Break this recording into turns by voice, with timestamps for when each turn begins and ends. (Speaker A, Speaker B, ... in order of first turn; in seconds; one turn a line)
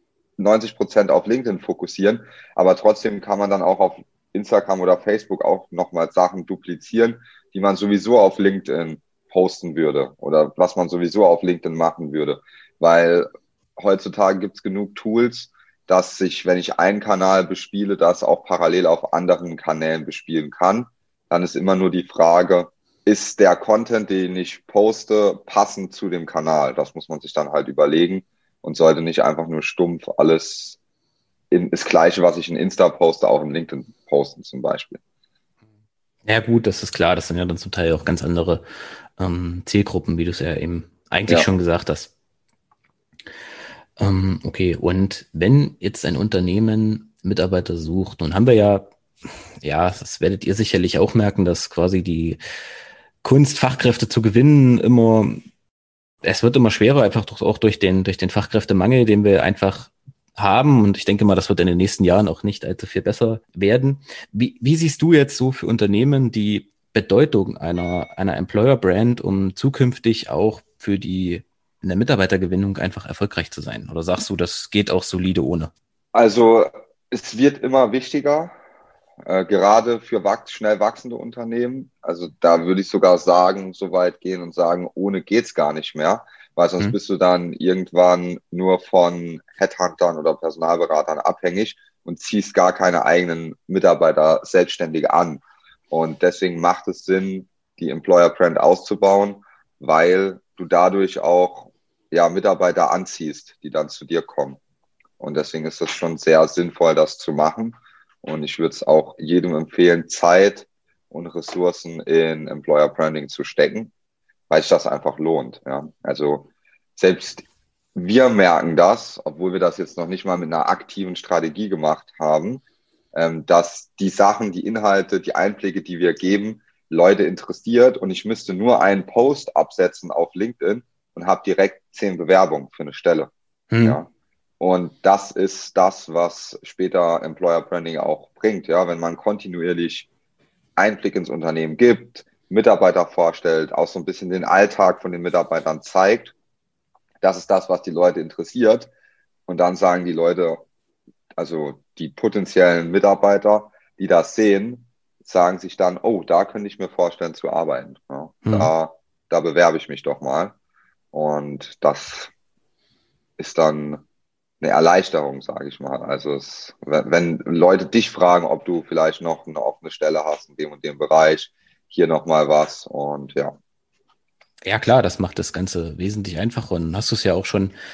Speaker A: 0.4-30.8
Speaker A: 31.5-35.0
Speaker B: 36.3-38.6
Speaker B: 39.2-42.1
Speaker B: 44.0-48.9
Speaker B: 49.6-52.4
Speaker B: 53.2-55.4
Speaker B: 56.2-75.7
Speaker A: 76.1-78.5
Speaker A: 79.2-104.6
Speaker A: 105.2-113.9
Speaker A: 114.5-122.6
Speaker A: 123.1-133.3
Speaker B: 133.7-134.0
Speaker A: 134.6-140.1
Speaker A: 140.8-146.3
Speaker A: 147.2-148.9
Speaker A: 149.5-150.6
Speaker A: 151.4-160.6
Speaker B: 158.4-158.7
Speaker A: 161.1-162.3
Speaker A: 163.4-164.0
Speaker A: 164.6-173.5
Speaker B: 174.7-177.7